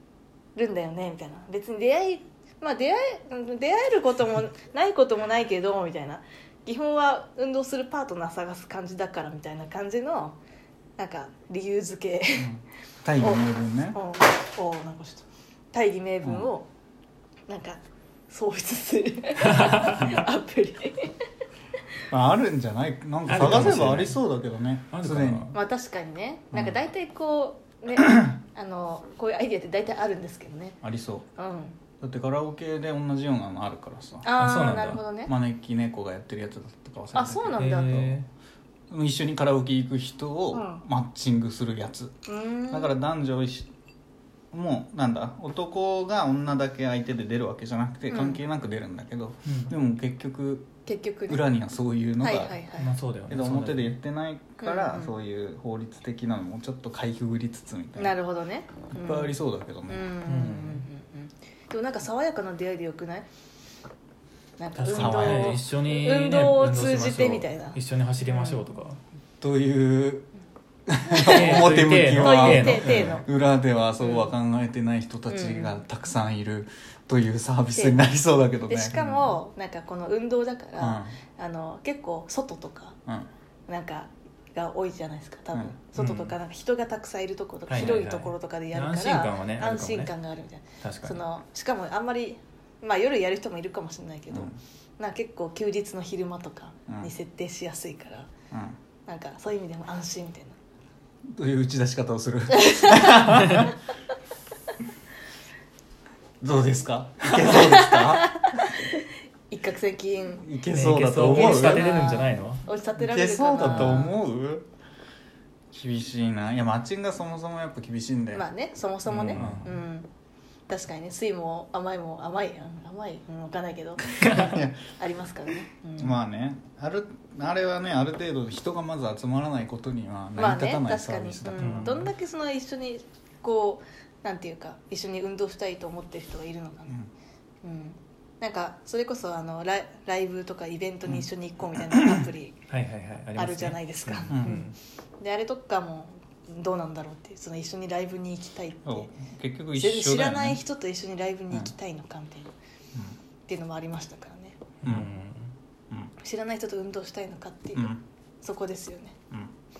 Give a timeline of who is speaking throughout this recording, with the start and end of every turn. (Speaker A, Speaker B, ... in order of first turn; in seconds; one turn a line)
Speaker A: 0.5-10.4
Speaker A: 11.0-12.5
Speaker B: 12.4-14.0
Speaker A: 13.2-16.7
Speaker A: 17.5-21.1
Speaker C: 19.5-20.1
Speaker B: 22.1-25.5
Speaker C: 23.2-24.2
Speaker C: 24.9-25.5
Speaker A: 25.5-30.8
Speaker B: 26.5-26.8
Speaker B: 30.8-31.3
Speaker A: 31.4-31.8
Speaker B: 32.0-34.3
Speaker A: 34.2-35.3
Speaker C: 34.4-35.0
Speaker B: 35.2-38.2
Speaker A: 37.1-38.1
Speaker C: 37.6-38.3
Speaker B: 38.9-42.2
Speaker A: 40.5-40.8
Speaker A: 42.2-42.9
Speaker B: 42.7-43.7
Speaker B: 44.5-50.7
Speaker A: 48.1-48.4
Speaker C: 49.5-49.7
Speaker A: 50.9-51.4
Speaker B: 51.3-52.6
Speaker A: 52.2-52.9
Speaker C: 52.8-53.9
Speaker B: 53.3-58.1
Speaker A: 54.6-55.1
Speaker A: 58.0-59.4
Speaker B: 58.9-60.1
Speaker A: 59.9-63.3
Speaker C: 60.2-60.9
Speaker A: 64.6-68.6
Speaker C: 64.8-69.0
Speaker B: 64.9-65.6
Speaker B: 69.4-70.3
Speaker B: 70.9-79.4
Speaker A: 71.1-73.2
Speaker C: 71.2-73.2
Speaker A: 74.0-74.3
Speaker A: 75.3-75.8
Speaker A: 77.7-78.0
Speaker A: 78.7-83.0
Speaker B: 80.8-81.1
Speaker A: 83.7-98.3
Speaker C: 86.0-86.3
Speaker C: 87.7-90.1
Speaker C: 90.8-91.2
Speaker B: 94.3-94.6
Speaker B: 98.5-98.8
Speaker A: 99.0-100.6
Speaker B: 101.3-103.7
Speaker A: 102.6-103.2
Speaker C: 103.2-103.7
Speaker B: 106.4-108.5
Speaker A: 107.5-110.6
Speaker B: 110.4-112.0
Speaker C: 110.7-112.6
Speaker A: 111.2-114.1
Speaker B: 113.0-114.7
Speaker C: 113.6-114.1
Speaker B: 115.7-118.4
Speaker A: 118.3-120.1
Speaker C: 119.1-119.7
Speaker B: 119.3-119.7
Speaker A: 120.7-126.2
Speaker B: 124.2-124.8
Speaker B: 126.0-132.1
Speaker A: 130.3-137.0
Speaker C: 131.6-132.0
Speaker A: 137.6-142.6
Speaker C: 142.7-144.8
Speaker A: 143.3-149.1
Speaker B: 144.3-144.6
Speaker B: 148.8-150.6
Speaker A: 149.8-152.5
Speaker A: 153.5-154.6
Speaker C: 154.8-155.5
Speaker A: 156.2-159.2
Speaker B: 157.7-158.0